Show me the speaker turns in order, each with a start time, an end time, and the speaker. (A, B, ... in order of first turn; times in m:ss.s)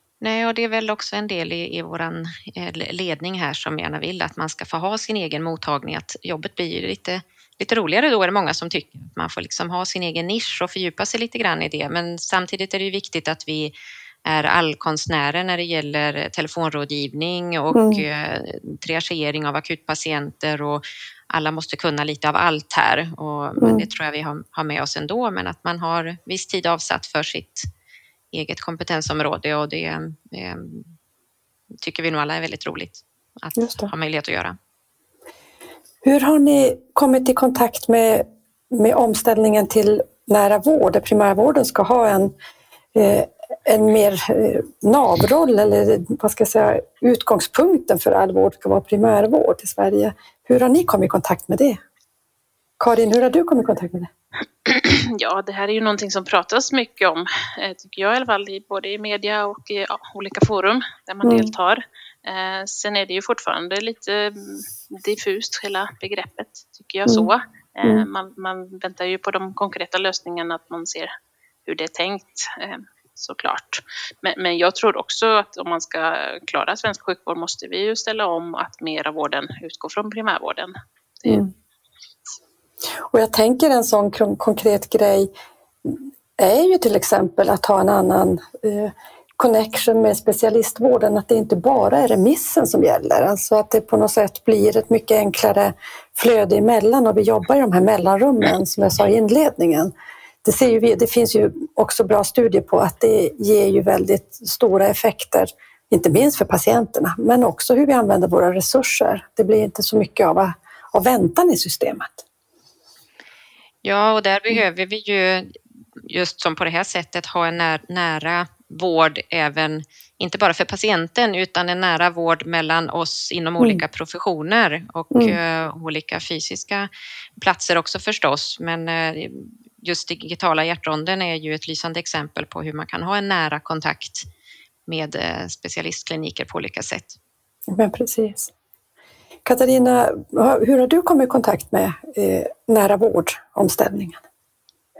0:00.2-0:13.7 A
0:14.2-0:27.7 A
0:17.7-0:18.0 B
0:23.6-0:23.8 B
0:28.3-0:30.9 A
0:31.8-0:34.6 A
0:33.6-0:33.9 B
0:36.0-0:42.3 B
0:42.9-0:51.8 B
0:52.8-0:54.1 B
0:54.6-1:11.1 C
1:01.2-1:01.5 B
1:11.6-1:20.7 C
1:21.3-1:21.5 B
1:23.1-1:25.3 B
1:25.8-1:39.9 B
1:40.4-1:52.2 B
1:53.8-2:14.2 A
2:05.1-2:05.4 B
2:14.9-2:17.2 A
2:17.7-2:18.5 B
2:19.4-2:24.2 B